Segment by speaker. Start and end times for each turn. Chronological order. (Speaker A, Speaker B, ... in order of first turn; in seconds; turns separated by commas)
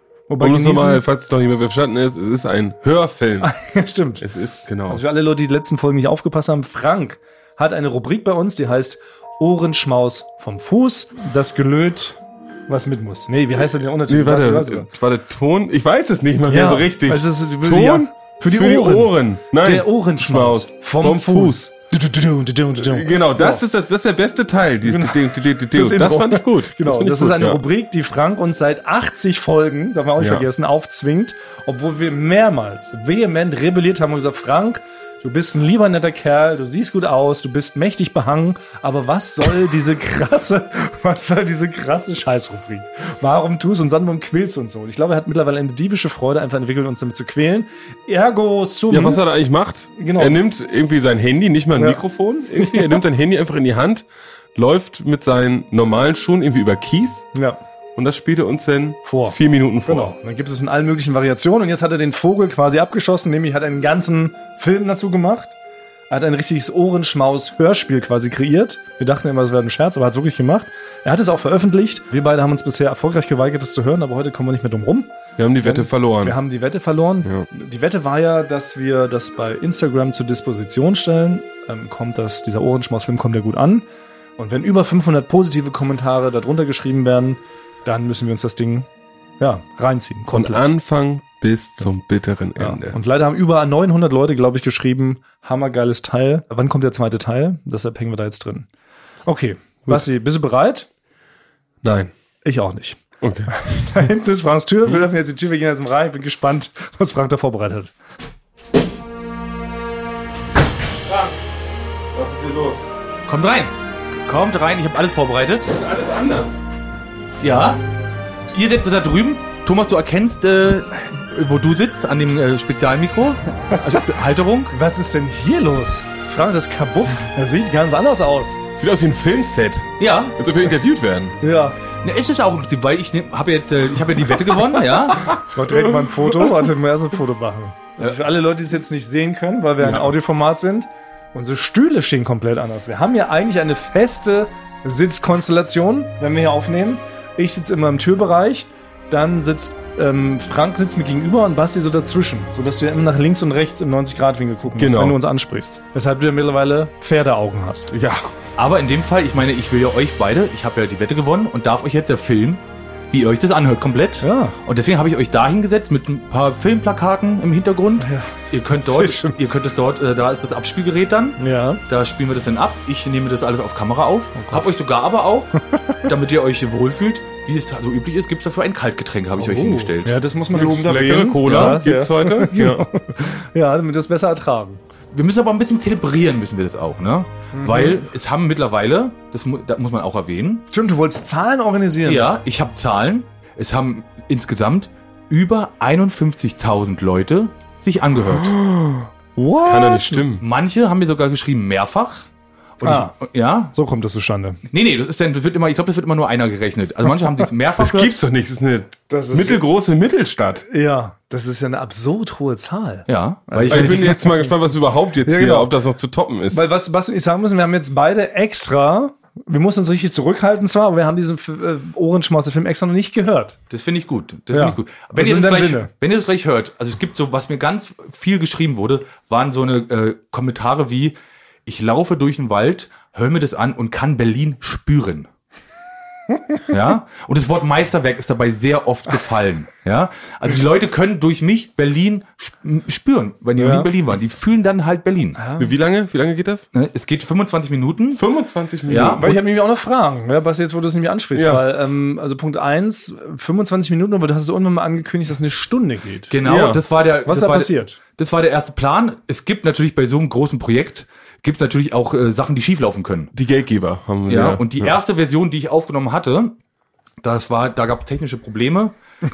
Speaker A: 0.3-1.0, Speaker B: 0.4-3.5, Speaker A: 3.4-4.2, Speaker B: 4.2-5.0, Speaker A: 4.8-14.9, Speaker B: 14.1-21.6, Speaker A: 16.5-23.6, Speaker B: 22.8-27.6, Speaker A: 24.8-49.2, Speaker B: 30.2-30.4, Speaker B: 48.9-57.2, Speaker A: 50.0-50.4, Speaker A: 51.8-53.0, Speaker B: 58.0-60.1, Speaker A: 59.0-65.5, Speaker A: 66.1-83.8, Speaker B: 75.4-76.4, Speaker A: 84.4-88.9, Speaker A: 89.4-90.7, Speaker B: 90.3-93.0, Speaker A: 92.6-98.7, Speaker A: 99.2-100.9, Speaker B: 101.8-102.1, Speaker A: 102.4-103.0, Speaker B: 103.2-103.5, Speaker A: 103.5-107.9, Speaker B: 112.1-112.9, Speaker C: 113.3-115.7, Speaker B: 115.7-116.6, Speaker C: 117.4-117.8, Speaker C: 118.5-124.7, Speaker A: 124.7-128.6, Speaker B: 128.8-131.3, Speaker C: 130.0-130.3, Speaker A: 131.4-131.8, Speaker C: 132.0-135.3, Speaker A: 135.3-157.9, Speaker B: 135.7-136.5, Speaker B: 139.8-140.1, Speaker B: 154.7-155.2, Speaker B: 157.9-158.3, Speaker C: 158.6-180.2, Speaker A: 164.2-164.6, Speaker A: 168.0-169.4, Speaker A: 171.4-171.8, Speaker A: 174.3-174.7, Speaker A: 179.4-184.8, Speaker B: 180.5-182.9, Speaker C: 181.4-181.8, Speaker C: 185.1-190.6, Speaker A: 187.5-188.1, Speaker A: 190.7-192.3, Speaker C: 192.0-198.5, Speaker A: 199.3-200.2, Speaker B: 199.5-200.4, Speaker C: 200.4-202.3, Speaker C: 202.8-203.7, Speaker A: 202.8-203.2, Speaker A: 203.7-204.6, Speaker C: 204.7-208.1, Speaker B: 207.8-210.6, Speaker A: 209.1-209.6, Speaker A: 210.7-214.5, Speaker C: 213.1-214.2, Speaker B: 213.7-216.7, Speaker A: 215.2-215.7, Speaker A: 216.5-223.6, Speaker C: 223.7-231.1, Speaker A: 224.5-225.9, Speaker C: 231.7-235.3, Speaker C: 236.7-245.4, Speaker A: 243.6-243.9, Speaker A: 245.4-245.7, Speaker B: 245.6-246.7, Speaker C: 246.7-248.2, Speaker B: 248.1-249.3, Speaker C: 248.9-249.4, Speaker A: 249.2-256.3, Speaker B: 251.3-251.6, Speaker C: 256.3-263.3, Speaker B: 256.4-256.8, Speaker A: 257.2-258.0, Speaker B: 263.3-264.6, Speaker C: 264.3-266.6, Speaker C: 267.2-268.9